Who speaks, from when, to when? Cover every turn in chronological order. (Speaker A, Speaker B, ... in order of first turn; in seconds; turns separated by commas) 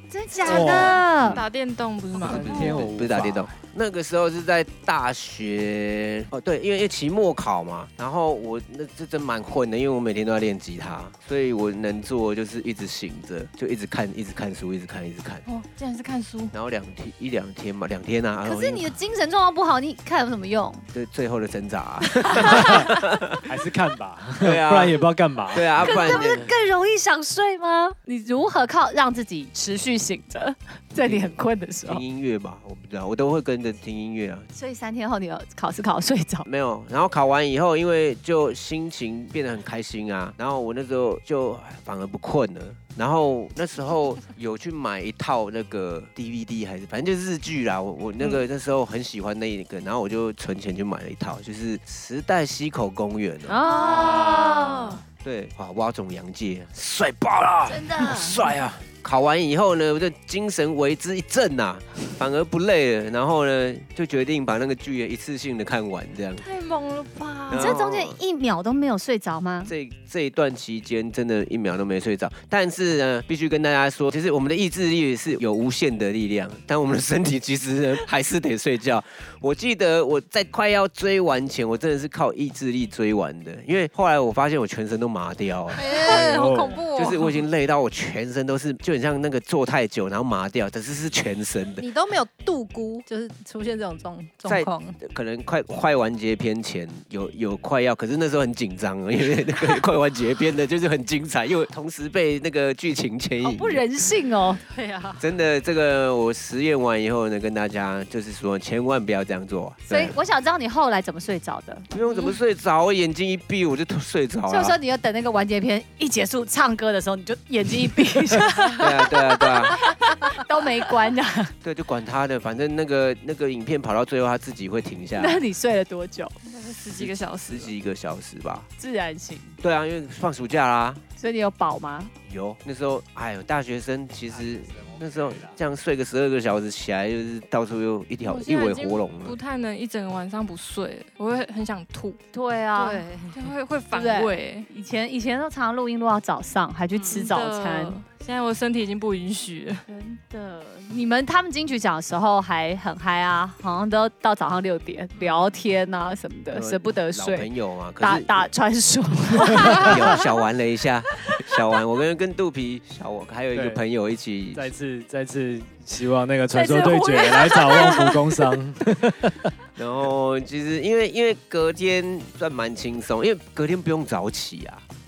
Speaker A: 0.1-1.4, Speaker B: 0.4-2.8, Speaker C: 0.5-1.1, Speaker C: 2.2-3.5, Speaker D: 2.2-15.4, Speaker A: 2.5-2.8, Speaker B: 15.5-16.5, Speaker D: 16.5-18.9, Speaker A: 18.4-20.9, Speaker D: 20.9-23.5, Speaker A: 22.2-22.9, Speaker C: 23.5-25.9, Speaker D: 24.4-25.0, Speaker D: 25.5-26.5, Speaker A: 25.8-32.0, Speaker D: 31.0-31.3, Speaker D: 31.9-34.5, Speaker A: 34.5-36.5, Speaker D: 36.5-53.6, Speaker A: 53.5-55.0, Speaker E: 53.6-55.0, Speaker D: 55.2-66.5, Speaker A: 57.7-58.4, Speaker B: 66.4-67.8, Speaker D: 67.5-68.2, Speaker A: 67.5-69.7, Speaker D: 69.7-91.9, Speaker E: 85.7-87.4, Speaker C: 86.1-86.8, Speaker E: 91.8-95.0, Speaker D: 94.5-103.8, Speaker A: 103.4-105.2, Speaker D: 105.2-110.1, Speaker A: 109.9-111.9, Speaker D: 111.9-114.8, Speaker B: 112.0-112.4, Speaker A: 114.5-121.5, Speaker D: 118.8-119.8, Speaker D: 121.6-125.4, Speaker A: 125.2-126.4, Speaker B: 126.5-127.7, Speaker D: 126.9-128.7, Speaker A: 128.8-129.6, Speaker D: 129.6-131.0, Speaker A: 131.2-132.1, Speaker D: 132.3-139.4, Speaker C: 134.8-135.6, Speaker B: 138.2-142.2, Speaker A: 142.3-148.0, Speaker B: 142.7-144.7, Speaker B: 146.9-149.8, Speaker A: 149.9-157.5, Speaker D: 156.5-158.5, Speaker A: 158.0-160.3, Speaker D: 159.7-164.7, Speaker C: 163.5-163.8, Speaker C: 164.5-169.5, Speaker A: 166.5-168.2, Speaker D: 169.8-174.8